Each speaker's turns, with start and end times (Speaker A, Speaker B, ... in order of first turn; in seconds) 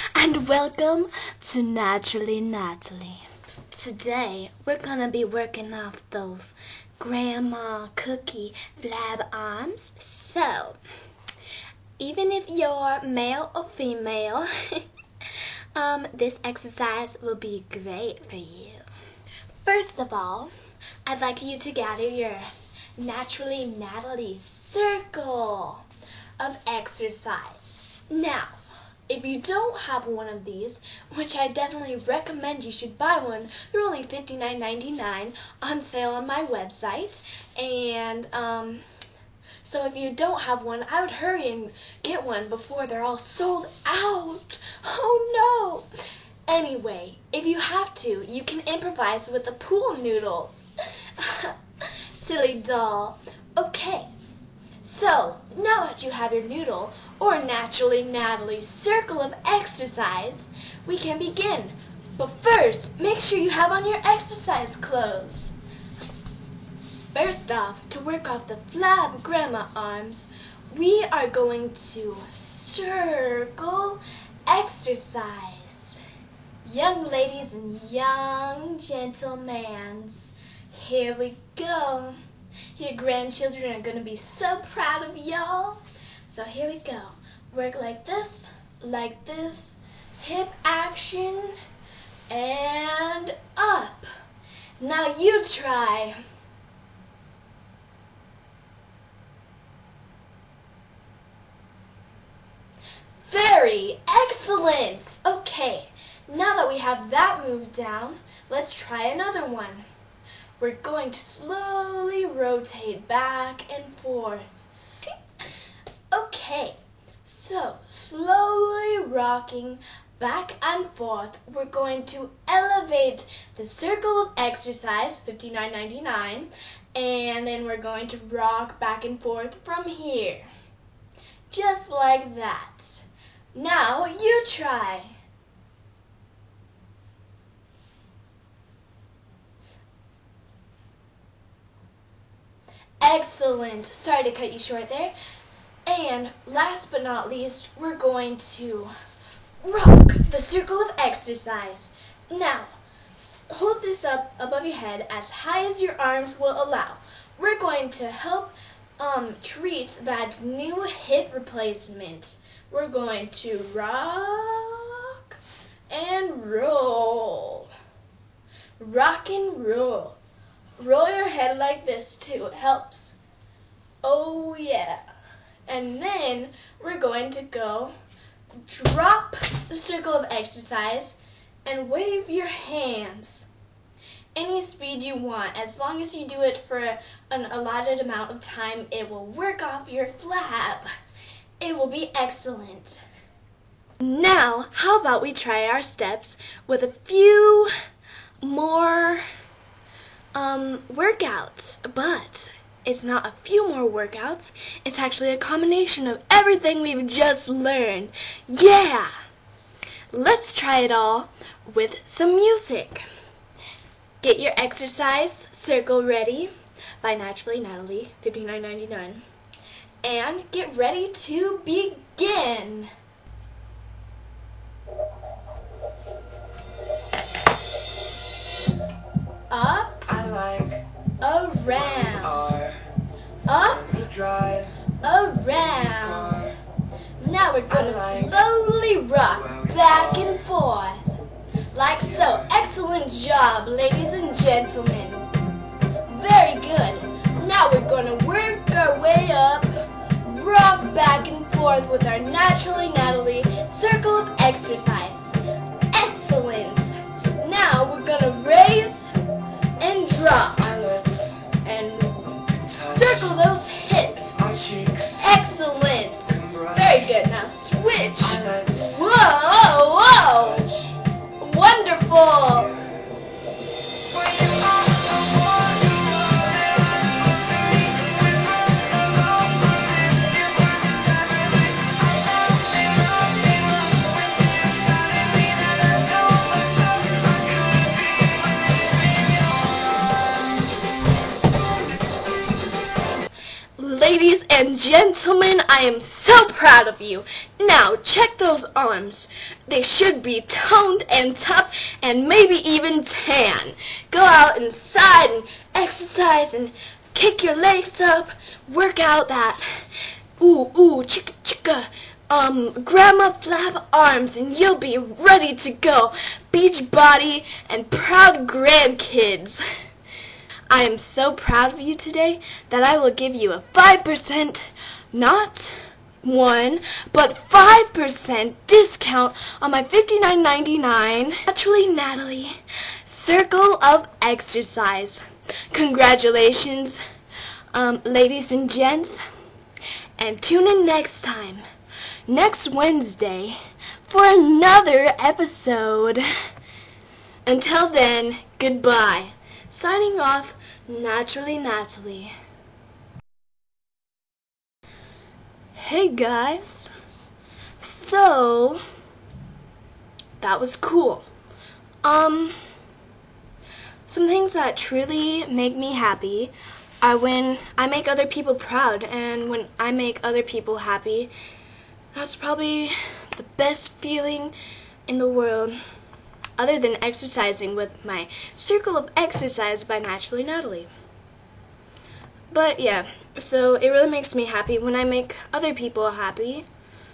Speaker A: 0.1-10.8, 12.0-14.8, 15.7-18.8, 19.6-20.5, 21.0-25.8, 26.4-28.5, 29.1-38.8, 39.6-45.9, 46.5-50.5, 51.1-51.5, 52.1-54.1, 54.8-65.5, 67.1-76.0, 76.6-82.2, 82.7-91.5, 92.3-94.1, 94.8-96.2, 103.2-109.8, 110.6-114.5, 116.1-130.5, 131.5-135.1, 143.0-145.1, 145.8-148.9, 149.6-167.7, 168.8-170.2, 170.8-173.2, 174.0-175.0, 175.7-177.9, 178.6-183.5, 184.3-190.9, 191.6-193.0, 194.0-197.7, 198.4-199.2, 200.3-209.1, 210.1-213.0, 214.2-219.2, 220.0-222.9, 229.5-230.2, 231.2-232.4, 233.5-234.0, 235.0-236.5, 237.2-241.1, 241.7-245.3, 246.1-255.3, 255.9-259.1, 259.8-260.7, 261.6-264.4, 265.2-270.6, 271.4-272.7, 293.8-309.6, 310.4-319.6, 320.7-337.0, 337.7-339.2, 340.2-341.6, 342.3-346.2, 347.4-352.3, 355.7-356.9, 357.8-358.8, 360.4-361.2, 362.0-362.6, 364.1-371.3, 372.1-374.5, 375.1-375.8, 376.6-380.9, 382.5-386.7
Speaker B: 230.1-230.8, 231.7-232.8, 233.7-234.8, 235.9-236.5, 237.7-238.4, 239.3-240.4, 242.0-242.5, 260.5-261.5, 262.5-263.3, 264.4-265.2, 266.3-267.1, 268.2-269.0, 270.2-271.0, 272.5-273.1